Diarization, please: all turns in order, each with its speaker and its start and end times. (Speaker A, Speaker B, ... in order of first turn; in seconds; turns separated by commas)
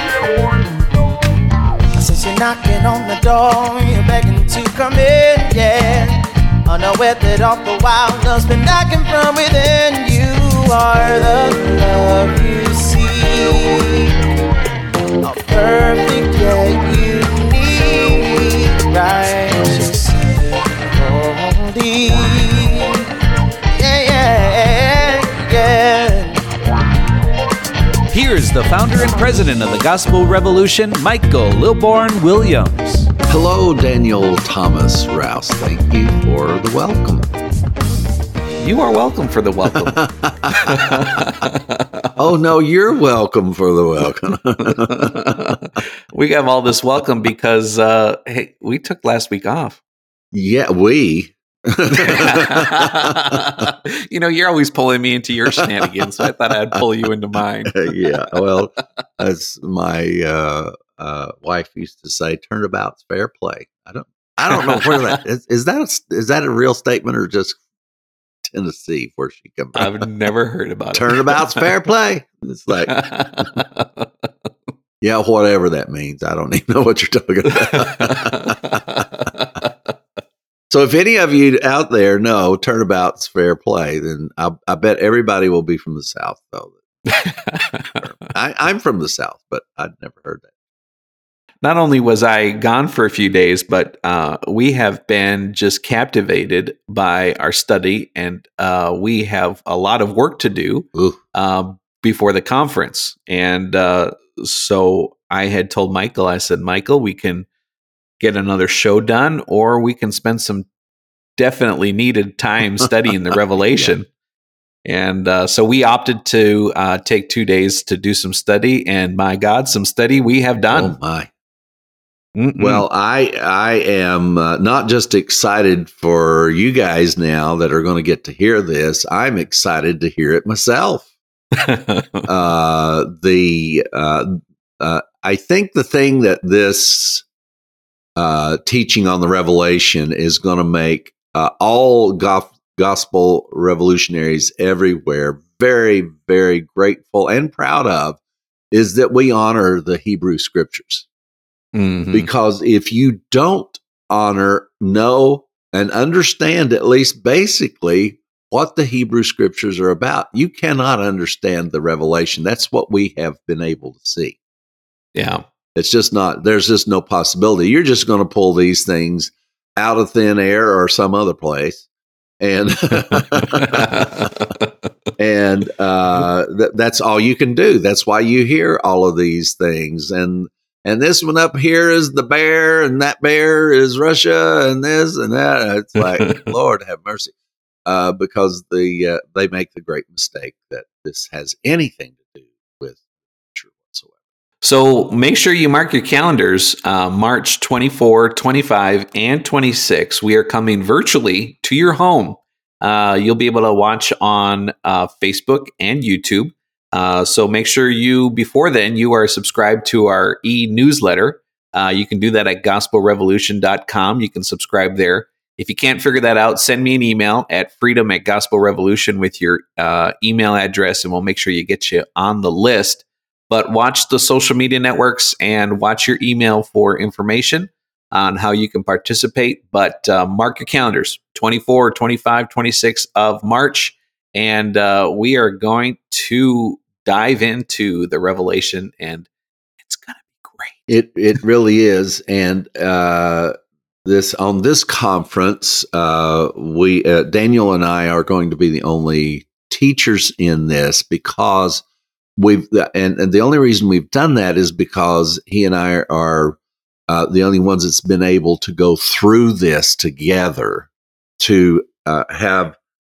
Speaker A: 2.0-14.1, Speaker A: 15.2-23.1, Speaker A: 23.8-26.4, Speaker B: 28.1-33.1, Speaker C: 33.3-37.3, Speaker B: 38.6-41.9, Speaker C: 39.7-41.3, Speaker C: 42.2-45.6, Speaker B: 44.7-49.8, Speaker C: 50.3-53.6, Speaker B: 51.9-58.1, Speaker C: 57.7-67.6, Speaker B: 64.5-65.2, Speaker C: 68.4-69.9, Speaker B: 69.8-71.7, Speaker C: 70.9-73.5, Speaker B: 72.9-74.1, Speaker C: 75.0-78.8, Speaker B: 77.7-79.7, Speaker C: 80.7-86.8, Speaker B: 87.1-88.0, Speaker C: 87.9-90.5, Speaker B: 91.6-107.5, Speaker B: 108.2-110.7, Speaker B: 111.4-114.1, Speaker B: 114.8-121.0, Speaker C: 120.7-121.3, Speaker B: 122.4-122.9, Speaker C: 122.6-131.1, Speaker B: 131.6-132.3, Speaker C: 132.3-137.2, Speaker C: 138.2-148.2, Speaker C: 148.7-151.1, Speaker B: 151.7-152.3, Speaker C: 152.1-164.4, Speaker B: 165.1-165.4, Speaker C: 165.8-171.8, Speaker C: 172.4-174.3, Speaker B: 173.3-174.6, Speaker C: 175.2-187.3, Speaker B: 186.0-186.4, Speaker C: 187.9-194.1, Speaker B: 194.6-239.3, Speaker B: 239.8-240.8, Speaker C: 240.9-243.5, Speaker C: 244.1-251.8, Speaker C: 252.4-256.6, Speaker C: 257.1-262.8